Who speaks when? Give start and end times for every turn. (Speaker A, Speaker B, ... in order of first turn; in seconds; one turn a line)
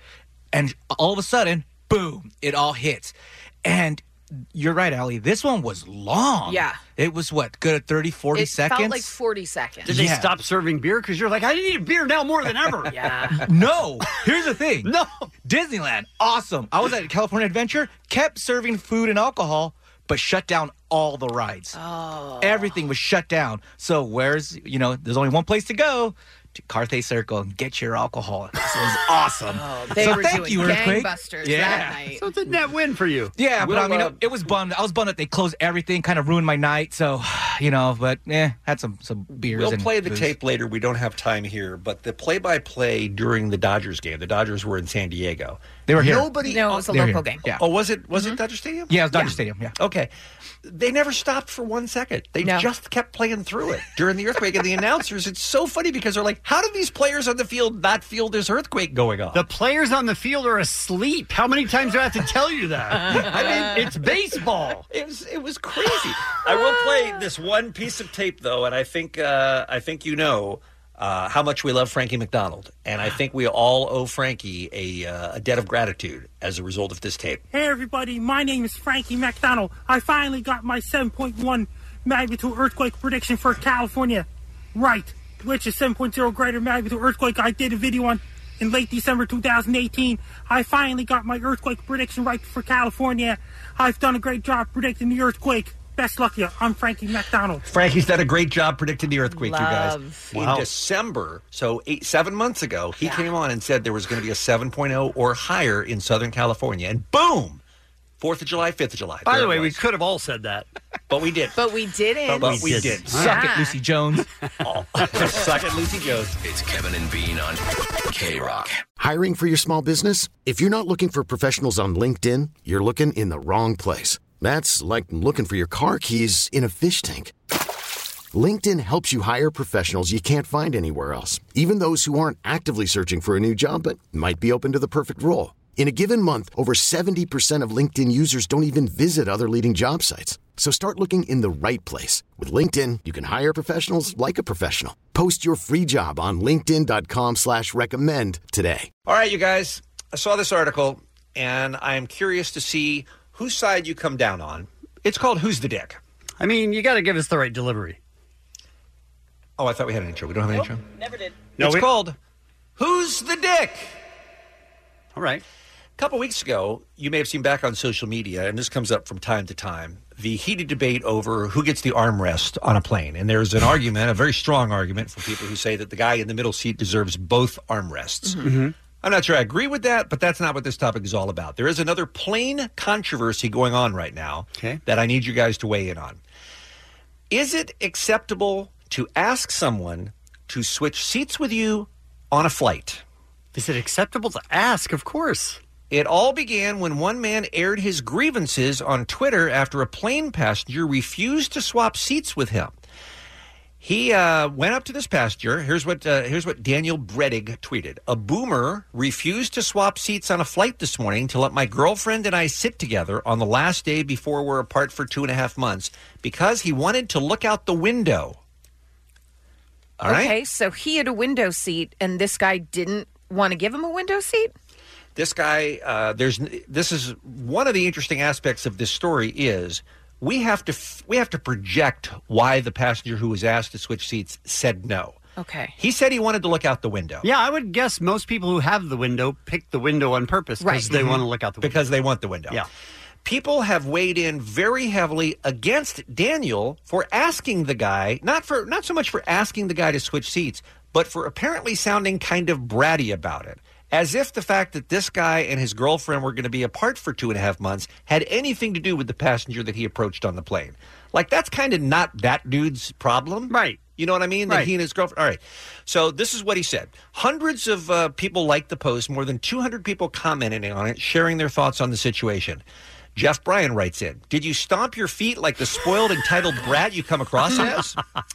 Speaker A: 0.5-9.1
Speaker B: 6.5-6.8
Speaker B: 8.3-9.9
Speaker A: 9.8-10.3
Speaker C: 9.9-13.0
Speaker B: 12.9-13.4
Speaker A: 13.4-14.9
Speaker C: 14.8-15.3
Speaker A: 15.4-21.8
Speaker B: 21.7-22.7
Speaker A: 22.4-32.0
Speaker B: 29.5-32.2
Speaker C: 32.1-33.3
Speaker A: 33.4-40.3
Speaker D: 33.6-34.2
Speaker D: 39.5-46.8
Speaker A: 45.9-47.6
Speaker B: 46.4-47.4
Speaker D: 47.6-49.0
Speaker A: 48.9-49.7
Speaker D: 49.8-50.1
Speaker D: 50.6-59.4
Speaker B: 52.4-52.7
Speaker C: 59.3-64.8
Speaker B: 63.1-63.7
Speaker D: 63.1-63.9
Speaker D: 64.9-77.4
Speaker E: 77.5-97.6
Speaker D: 97.7-107.6
Speaker B: 99.3-100.3
Speaker C: 100.3-100.7
Speaker D: 108.2-109.8
Speaker C: 109.2-110.7
Speaker D: 111.1-111.6
Speaker B: 111.5-113.8
Speaker D: 112.3-113.1
Speaker C: 112.4-113.4
Speaker A: 113.1-114.2
Speaker D: 114.6-116.4
Speaker F: 116.4-118.7
Speaker G: 119.0-127.3
Speaker G: 128.3-148.9
Speaker D: 149.1-156.0
Speaker C: 156.4-158.0
Speaker D: 159.6-160.8
Speaker C: 161.6-161.9
Speaker D: 161.6-162.2
Speaker D: 162.8-164.0
Speaker C: 165.1-165.4
Speaker D: 166.0-178.5
Speaker C: 178.4-178.7
Speaker D: 179.0-186.2
Speaker D: 187.3-193.0
Speaker C: 193.5-195.6
Speaker D: 195.9-202.8
Speaker D: 203.8-218.4
Speaker D: 220.0-220.3
Speaker B: 220.0-224.5
Speaker D: 225.1-235.2
Speaker B: 235.4-235.7
Speaker D: 235.8-237.3
Speaker C: 237.2-241.8
Speaker B: 240.6-240.9
Speaker D: 240.9-242.6
Speaker D: 243.2-272.6
Speaker C: 263.5-263.8
Speaker D: 273.1-278.0